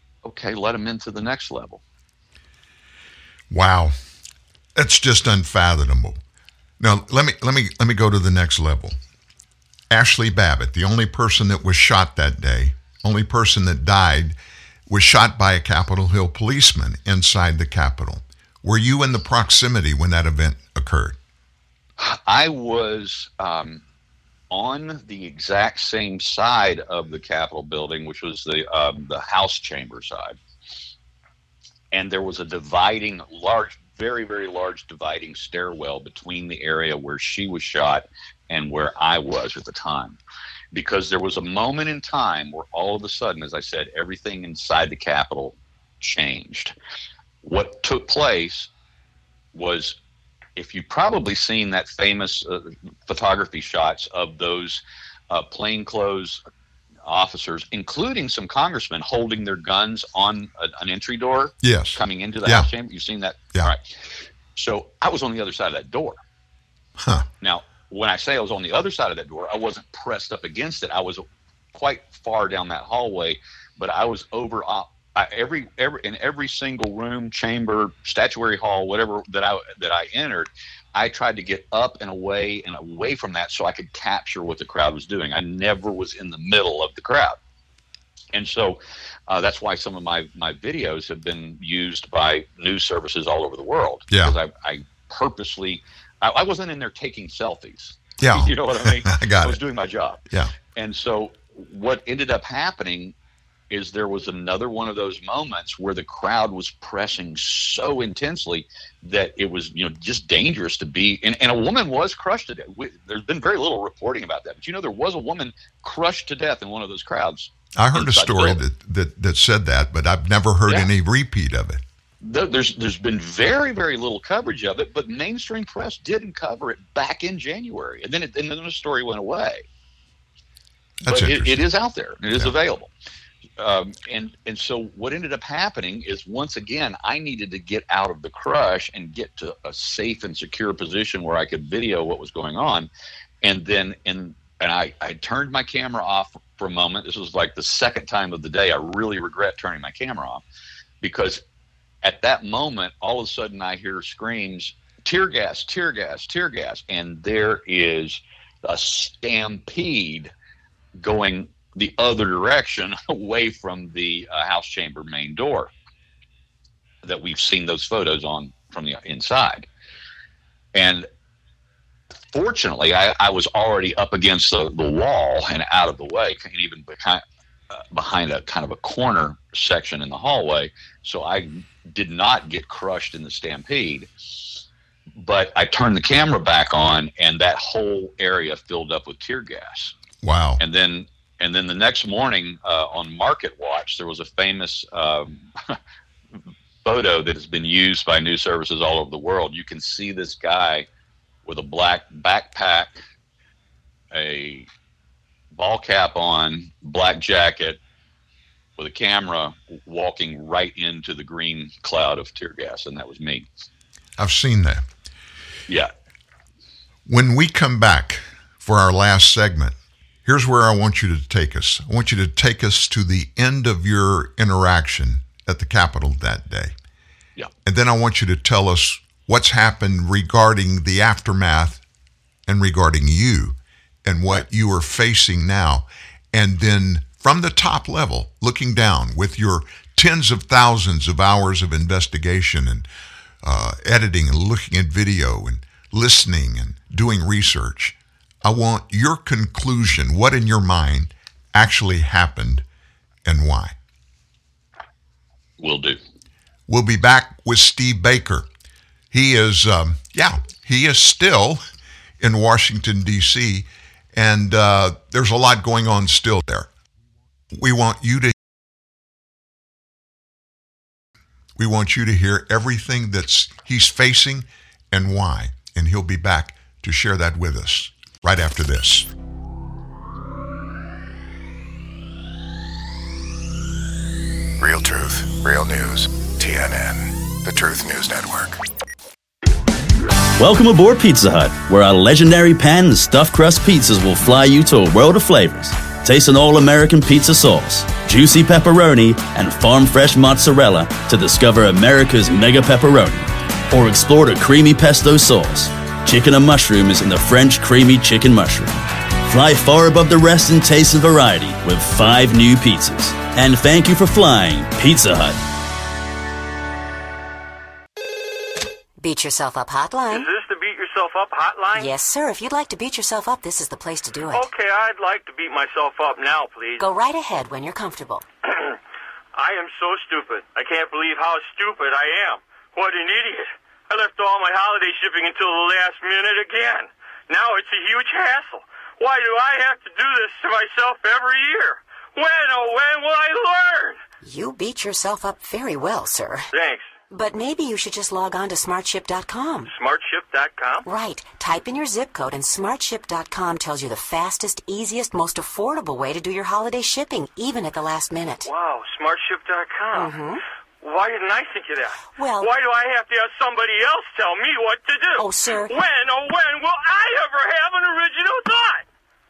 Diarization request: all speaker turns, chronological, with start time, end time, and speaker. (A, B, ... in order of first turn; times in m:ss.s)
0:00.2-0:01.8 A
0:03.5-0:04.0 B
0:04.8-0:06.2 B
0:06.8-0:09.0 B
0:09.9-0:14.4 B
0:14.9-0:21.2 B
0:22.0-0:23.8 A
0:24.5-0:30.4 A
0:31.9-0:40.2 A
0:40.7-0:46.8 A
0:47.4-0:48.7 A
0:49.5-0:50.0 A
0:50.6-0:56.4 A
0:57.0-1:03.8 A
1:01.6-1:02.7 B
1:04.6-1:06.2 A
1:07.0-1:07.3 B
1:07.4-1:27.4 A
1:28.3-1:40.2 A
1:34.1-1:34.4 B
1:38.2-1:39.6 B
1:40.7-1:43.2 A
1:43.7-1:58.6 A
1:57.8-2:01.8 B
2:02.2-2:09.6 A
2:11.0-2:11.7 B
2:11.1-2:12.9 A
2:13.6-2:22.9 A
2:23.4-2:30.4 A
2:31.0-2:31.4 A
2:32.0-2:40.3 A
2:41.0-2:45.7 A
2:47.0-2:49.7 A
2:50.7-2:51.1 A
2:52.3-3:04.4 A
3:05.2-3:10.0 A
3:10.2-3:10.6 B
3:10.6-3:15.8 A
3:16.8-3:20.9 A
3:21.4-3:23.0 A
3:24.1-3:24.7 A
3:25.5-3:27.8 A
3:28.8-3:33.5 A
3:34.2-3:34.8 B
3:37.1-3:46.7 B
3:47.6-3:51.8 B
3:52.5-4:02.9 B
4:03.4-4:12.6 B
4:13.2-4:13.8 B
4:15.6-4:16.0 A
4:16.7-4:18.5 B
4:19.1-4:21.6 B
4:22.2-4:26.7 B
4:27.5-4:28.4 B
4:31.6-4:39.1 B
4:44.6-4:48.6 C
4:50.4-5:15.4 D
5:19.0-5:20.3 E
5:20.1-5:21.9 F
5:21.7-5:24.5 E
5:24.3-5:26.8 F
5:26.8-5:28.2 E
5:29.4-5:44.0 F
5:44.2-5:46.5 E
5:46.5-5:47.0 F
5:47.1-5:49.7 E
5:49.7-5:50.8 F
5:50.8-5:58.5 E
5:58.4-6:00.1 F
5:59.9-6:00.4 E
6:00.8-6:08.8 F
6:02.2-6:02.5 E
6:05.2-6:05.8 E